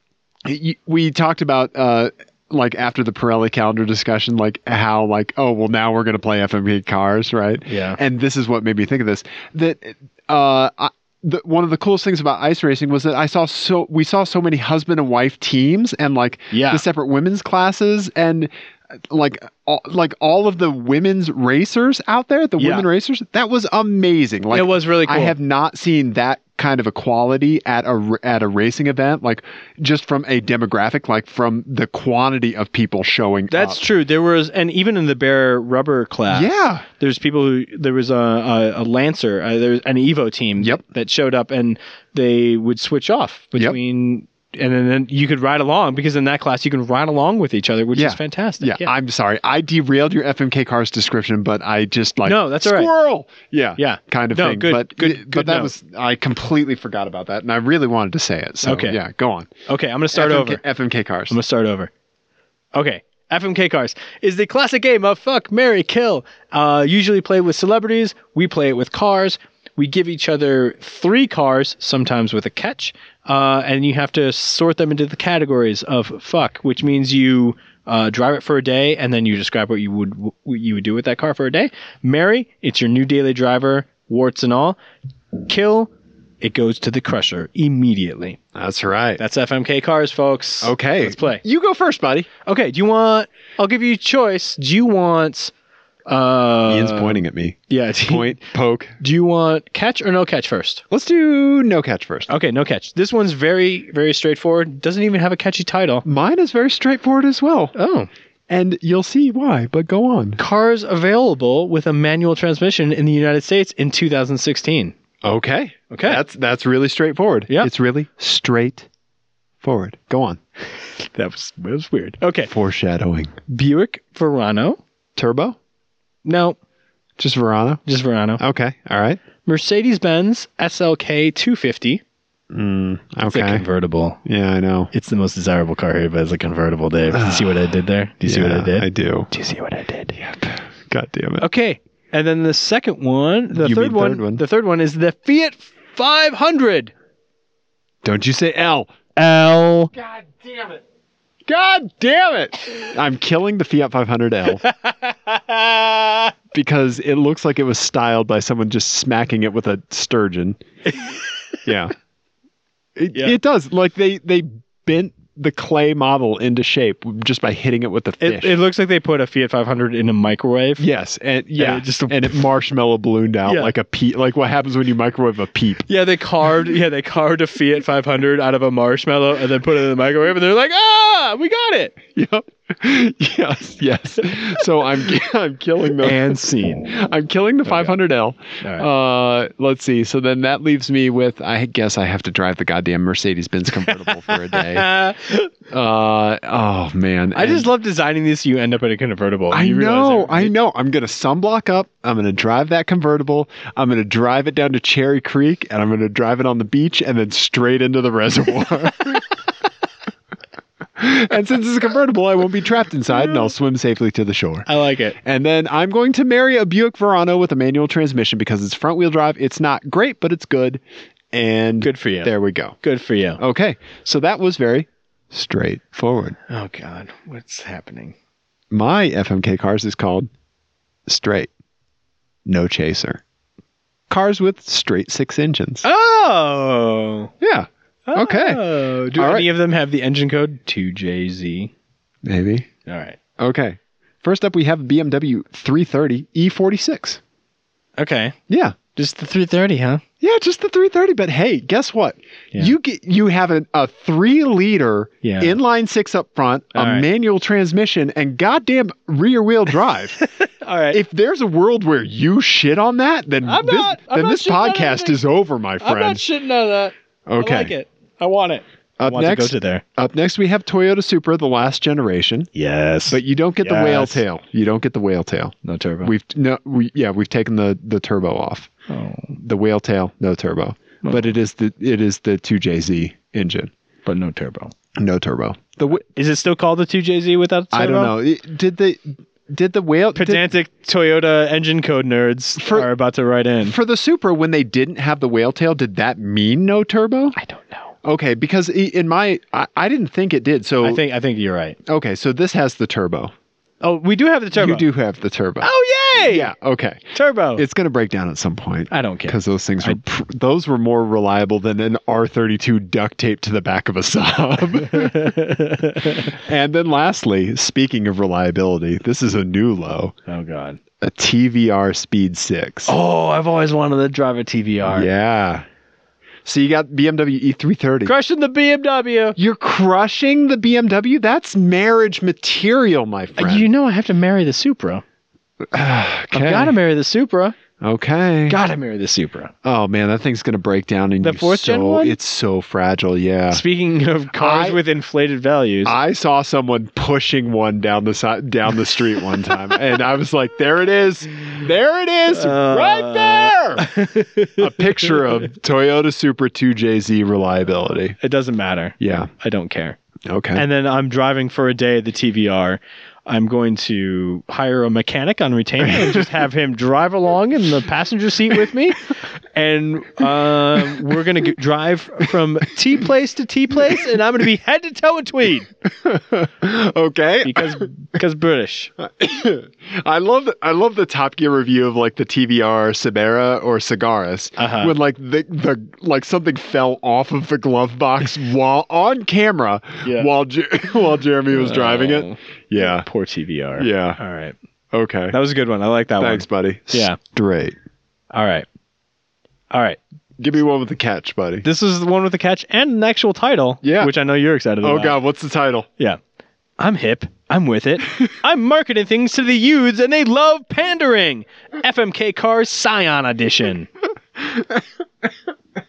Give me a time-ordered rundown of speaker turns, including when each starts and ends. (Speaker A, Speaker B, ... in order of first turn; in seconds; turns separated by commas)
Speaker A: 0.4-18.5, Speaker B: 7.7-8.0, Speaker B: 16.5-16.8, Speaker A: 19.1-33.8, Speaker B: 22.6-22.9, Speaker B: 24.5-25.3, Speaker B: 33.5-48.9, Speaker A: 36.3-36.8, Speaker A: 47.9-59.5, Speaker B: 52.2-52.9, Speaker B: 53.8-55.7, Speaker B: 58.6-59.0, Speaker B: 59.7-60.6, Speaker A: 60.1-61.4, Speaker B: 61.3-61.9, Speaker B: 62.7-84.8, Speaker B: 85.5-88.4, Speaker A: 88.5-89.2, Speaker B: 89.2-91.4, Speaker A: 90.6-92.3, Speaker B: 92.5-95.5, Speaker B: 96.1-97.2, Speaker A: 96.7-99.0, Speaker B: 97.7-98.4, Speaker B: 99.0-100.8, Speaker A: 100.9-102.3, Speaker B: 102.3-106.0, Speaker A: 106.0-107.7, Speaker B: 107.7-108.1, Speaker A: 108.5-110.4, Speaker B: 110.4-114.9, Speaker A: 115.2-118.9, Speaker B: 115.9-116.2, Speaker A: 119.6-120.4, Speaker B: 121.1-122.5, Speaker A: 122.5-123.3, Speaker B: 123.5-124.8, Speaker A: 125.2-125.6, Speaker B: 126.2-126.6, Speaker A: 127.2-127.8, Speaker B: 127.8-128.4, Speaker A: 128.4-129.2, Speaker B: 129.4-132.0, Speaker A: 132.5-133.6, Speaker B: 133.2-134.2, Speaker A: 134.2-134.9, Speaker B: 134.9-140.2, Speaker A: 137.1-137.7, Speaker A: 138.2-139.3, Speaker A: 140.2-141.4, Speaker B: 141.4-146.9, Speaker A: 143.5-144.4, Speaker A: 148.0-148.9, Speaker B: 149.2-149.9, Speaker A: 149.9-150.8, Speaker A: 151.4-154.6, Speaker B: 154.5-156.3, Speaker A: 156.5-160.6, Speaker B: 160.9-161.2, Speaker A: 161.6-161.9, Speaker A: 162.9-168.6, Speaker B: 168.2-170.8, Speaker A: 170.8-175.8, Speaker B: 171.6-172.4, Speaker B: 173.4-173.7, Speaker B: 175.9-182.0, Speaker A: 182.2-186.3, Speaker B: 186.0-186.9, Speaker A: 186.8-194.9, Speaker B: 187.7-188.0, Speaker B: 188.6-188.9, Speaker B: 193.8-195.5, Speaker A: 195.7-197.7, Speaker B: 197.3-200.5, Speaker A: 199.5-209.3, Speaker A: 211.0-214.7, Speaker B: 214.7-215.2, Speaker A: 215.2-222.8, Speaker B: 221.8-223.4, Speaker A: 223.4-226.3, Speaker B: 226.5-228.1, Speaker A: 228.7-230.3, Speaker A: 231.1-231.5, Speaker A: 232.4-233.2, Speaker A: 234.1-235.8, Speaker B: 235.8-237.3, Speaker A: 237.4-238.6, Speaker B: 238.1-241.7, Speaker A: 239.1-239.5, Speaker A: 242.2-242.7, Speaker B: 242.8-243.2, Speaker A: 243.4-247.2, Speaker B: 248.0-248.3, Speaker A: 248.5-248.8, Speaker B: 248.9-250.0, Speaker A: 250.2-260.2, Speaker B: 255.2-255.6, Speaker B: 256.7-257.1, Speaker B: 260.2-261.0, Speaker A: 260.9-266.2, Speaker B: 263.4-265.2, Speaker B: 265.8-269.8, Speaker A: 267.3-267.7, Speaker A: 269.0-272.5, Speaker B: 272.5-274.2, Speaker A: 273.1-278.7, Speaker B: 275.6-276.1, Speaker B: 278.9-279.4, Speaker A: 279.3-283.7, Speaker B: 284.0-284.7, Speaker A: 284.9-286.0, Speaker B: 285.9-288.1, Speaker A: 287.7-290.5, Speaker B: 290.1-293.8, Speaker A: 292.6-292.9, Speaker A: 293.6-297.4, Speaker B: 297.4-297.9, Speaker A: 298.0-301.0, Speaker B: 300.8-301.8, Speaker A: 301.9-303.3, Speaker B: 303.8-304.9, Speaker A: 304.5-307.0, Speaker B: 305.6-306.5, Speaker B: 307.1-307.6, Speaker A: 307.6-315.3, Speaker B: 308.9-310.0, Speaker B: 314.8-316.4, Speaker A: 316.2-320.1, Speaker B: 320.3-320.8, Speaker A: 321.0-322.9, Speaker B: 322.9-325.1, Speaker A: 324.9-325.6, Speaker A: 326.4-328.1, Speaker B: 328.0-329.4, Speaker A: 329.4-333.7, Speaker B: 333.4-335.0, Speaker A: 335.7-336.8, Speaker B: 336.3-337.5, Speaker A: 337.8-338.6, Speaker B: 338.5-339.5, Speaker A: 339.6-343.6, Speaker B: 341.2-342.1, Speaker B: 343.5-345.9, Speaker A: 344.3-344.8, Speaker A: 345.8-353.9, Speaker B: 352.3-355.4, Speaker A: 354.6-358.2, Speaker B: 358.2-360.0, Speaker A: 359.0-359.3, Speaker A: 360.3-360.6, Speaker B: 360.5-375.7, Speaker A: 365.8-366.2, Speaker A: 375.8-377.9, Speaker B: 377.4-378.9, Speaker A: 379.0-393.1, Speaker B: 384.6-384.9, Speaker B: 390.0-390.3, Speaker B: 391.5-394.5, Speaker A: 393.8-394.2, Speaker A: 394.9-395.4, Speaker B: 395.3-397.2, Speaker A: 396.2-397.8, Speaker B: 398.3-398.6, Speaker B: 399.7-400.0, Speaker A: 400.4-401.6, Speaker B: 401.6-405.2, Speaker A: 403.8-404.1, Speaker A: 404.8-405.9, Speaker B: 406.8-413.9, Speaker A: 414.4-415.3